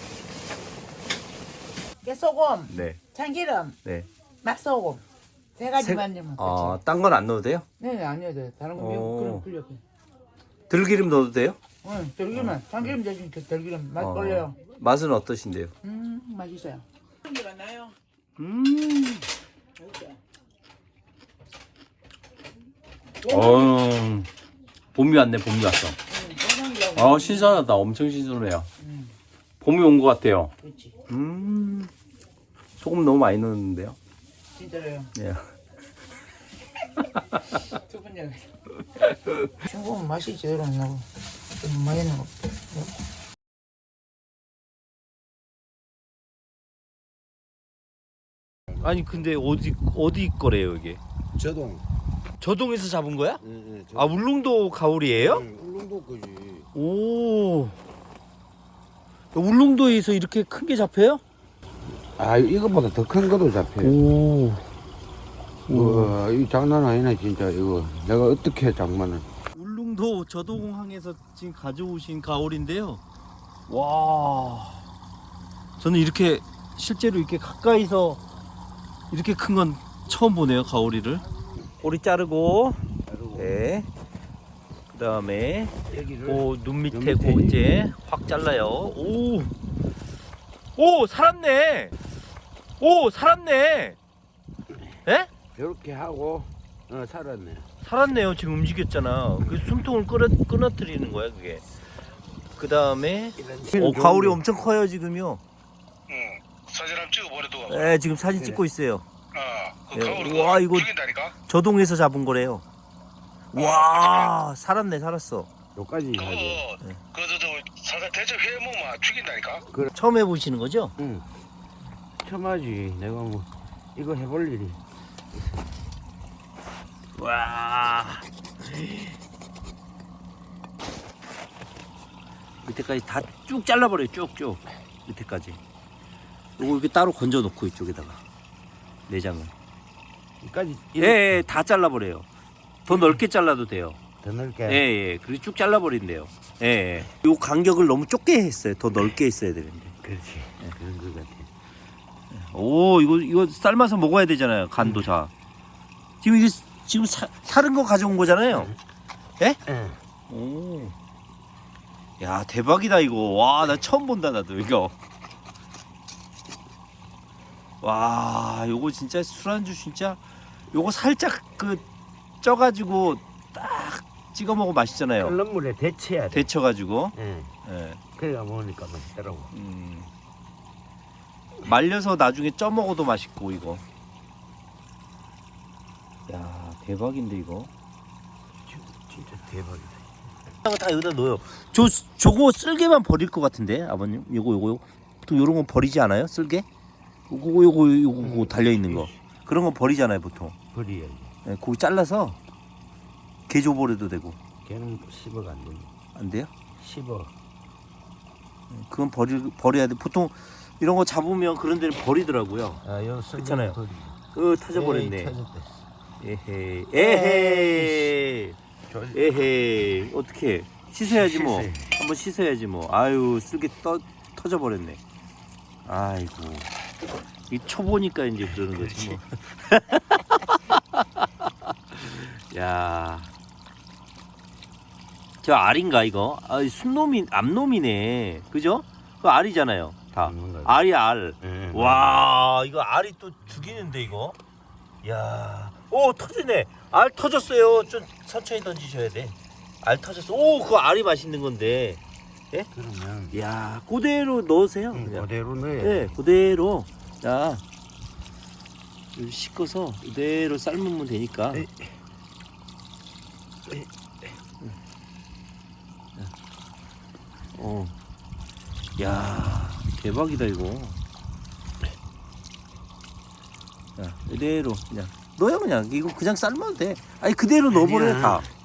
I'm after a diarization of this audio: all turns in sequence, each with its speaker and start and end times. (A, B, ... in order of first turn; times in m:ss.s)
0:02.0-0:03.8 A
0:02.7-0:03.0 B
0:04.4-0:05.0 A
0:05.6-0:06.8 A
0:05.8-0:07.6 B
0:07.8-0:09.8 A
0:08.7-0:09.4 B
0:10.7-0:11.6 B
0:11.8-0:14.6 A
0:12.3-0:12.9 B
0:14.0-0:15.7 B
0:15.8-0:17.9 A
0:18.4-0:19.3 B
0:19.8-0:20.2 A
0:23.2-0:23.7 A
0:23.2-0:24.3 B
0:24.9-0:26.0 B
0:26.1-0:27.6 A
0:26.9-0:28.7 B
0:28.8-0:29.1 A
0:29.6-0:30.5 B
0:30.6-0:30.9 A
0:31.1-0:31.9 B
0:32.8-0:34.0 B
0:34.6-0:35.1 A
0:35.2-0:35.5 B
0:37.0-0:37.6 B
0:37.7-0:38.5 A
0:39.1-0:39.5 B
0:39.6-0:42.9 A
0:48.8-0:51.0 B
0:51.3-0:51.8 C
0:52.4-0:53.4 B
0:53.4-0:54.2 C
0:53.9-0:55.4 B
0:55.1-0:56.7 C
0:56.7-0:57.7 B
0:59.3-1:01.2 B
1:02.2-1:04.0 C
1:03.8-1:04.7 B
1:05.7-1:06.1 B
1:05.7-1:09.2 C
1:09.5-1:13.0 B
1:13.7-1:14.8 B
1:15.8-1:18.2 B
1:19.1-1:21.2 B
1:21.8-1:23.9 B
1:23.1-1:23.6 C
1:24.9-1:29.5 B
1:25.9-1:27.7 C
1:30.8-1:31.9 B
1:32.8-1:34.0 B
1:35.5-1:37.7 C
1:37.8-1:41.6 B
1:42.6-1:45.4 B
1:43.4-1:44.4 C
1:46.1-1:47.8 D
1:47.7-1:49.0 B
1:48.3-1:48.6 C
1:49.3-1:51.3 D
1:49.9-1:52.6 B
1:53.5-1:55.5 B
1:53.5-1:54.2 D
1:55.7-1:56.7 C
1:56.2-1:59.6 D
1:59.9-2:00.9 B
2:01.0-2:01.2 C
2:02.2-2:04.8 C
2:07.2-2:09.2 B
2:12.6-2:15.6 B
2:16.6-2:18.2 B
2:19.1-2:19.5 B
2:20.4-2:21.4 C
2:21.0-2:22.2 B
2:22.8-2:24.0 B
2:24.2-2:24.8 C
2:24.7-2:30.0 B
2:30.0-2:31.5 C
2:32.3-2:35.3 B
2:34.8-2:35.1 C
2:36.2-2:38.7 B
2:39.6-2:40.0 C
2:40.3-2:40.9 B
2:42.2-2:45.0 B
2:47.8-2:51.8 B
2:52.4-2:55.4 B
2:55.2-2:56.5 C
2:56.3-2:58.0 B
2:57.1-2:57.5 C
2:58.1-2:59.5 C
2:59.5-3:00.1 B
3:01.6-3:03.8 B
3:06.3-3:07.7 B
3:08.6-3:10.1 C
3:10.6-3:16.6 B
3:17.3-3:20.5 B
3:18.2-3:19.1 C
3:20.7-3:21.3 C
3:21.4-3:22.4 B
3:23.5-3:24.4 B
3:24.6-3:25.9 C
3:26.1-3:26.5 B
3:26.8-3:27.3 C
3:28.7-3:32.8 B
3:32.8-3:34.2 C
3:33.4-3:33.8 B
3:34.3-3:35.3 B
3:34.7-3:35.8 C
3:36.2-3:38.6 B
3:37.0-3:38.1 C
3:38.9-3:39.2 C
3:39.1-3:45.0 B
3:41.1-3:41.9 C
3:45.8-3:46.7 B
3:47.5-3:53.3 B
3:48.8-3:49.2 C
3:55.4-4:04.4 B
4:00.2-4:00.7 C
4:01.4-4:02.2 C
4:05.0-4:12.7 B
4:12.7-4:13.4 C
4:13.3-4:15.3 B
4:14.9-4:16.1 C
4:15.8-4:17.6 B
4:19.1-4:21.6 B
4:21.5-4:21.9 C
4:27.5-4:27.9 B
4:29.0-4:31.0 B
4:34.0-4:38.4 B
4:37.7-4:38.5 C